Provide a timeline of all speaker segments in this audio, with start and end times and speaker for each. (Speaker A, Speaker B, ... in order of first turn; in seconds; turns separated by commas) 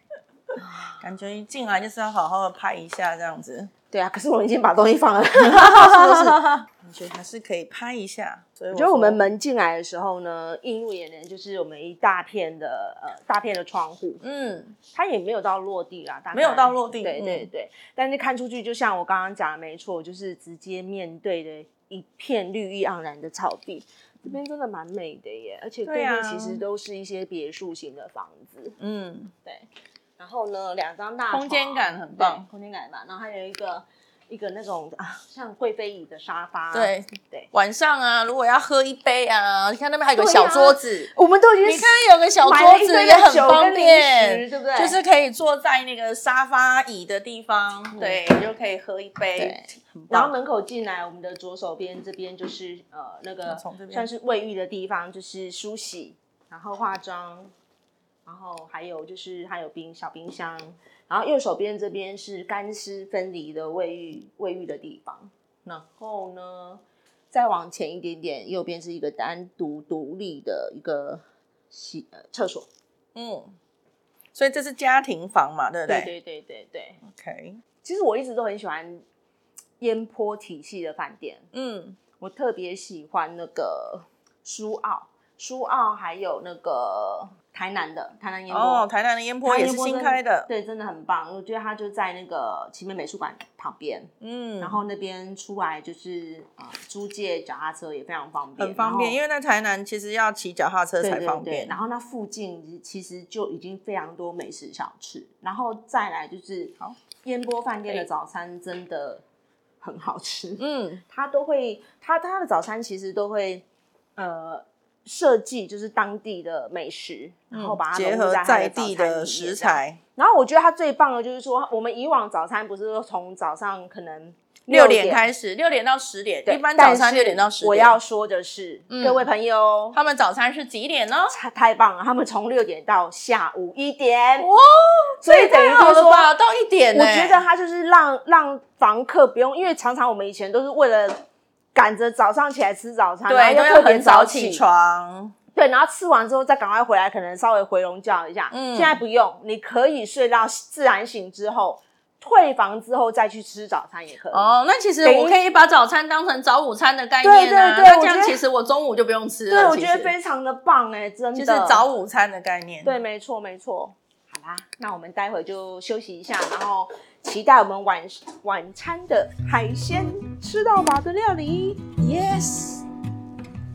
Speaker A: 0.6-1.0, Speaker B: 1.0-3.7, Speaker A: 3.9-6.5, Speaker B: 5.4-9.2, Speaker A: 8.7-14.2, Speaker B: 14.2-14.8, Speaker A: 14.9-28.8, Speaker B: 16.3-17.5, Speaker B: 25.9-26.6, Speaker B: 28.8-29.3, Speaker A: 30.2-37.5, Speaker B: 31.3-32.5, Speaker B: 36.7-41.1, Speaker A: 40.1-45.0, Speaker B: 41.6-50.3, Speaker A: 47.9-48.2, Speaker A: 49.4-57.5, Speaker B: 53.5-54.1, Speaker A: 58.3-72.7, Speaker B: 73.2-73.5, Speaker B: 74.3-76.1, Speaker A: 75.9-77.0, Speaker B: 77.0-77.6, Speaker A: 77.8-79.0, Speaker A: 79.8-81.5, Speaker B: 81.5-82.0, Speaker A: 82.2-88.9, Speaker B: 88.5-90.5, Speaker A: 89.4-99.2, Speaker B: 94.2-94.8, Speaker B: 98.6-101.8, Speaker A: 101.0-109.2, Speaker A: 109.8-113.7, Speaker B: 110.6-111.0, Speaker A: 114.2-125.3, Speaker B: 117.5-120.0, Speaker B: 124.7-128.0, Speaker A: 126.5-130.0, Speaker B: 128.9-129.3, Speaker B: 129.9-131.3, Speaker A: 131.3-134.5, Speaker B: 134.4-137.4, Speaker A: 135.2-136.3, Speaker A: 136.9-141.2, Speaker A: 141.8-144.6, Speaker B: 143.3-145.3, Speaker A: 145.6-155.4, Speaker B: 148.5-149.0, Speaker B: 154.3-160.1, Speaker A: 157.2-158.4, Speaker A: 159.5-161.9, Speaker B: 161.3-162.9, Speaker A: 162.8-171.9, Speaker B: 172.0-172.8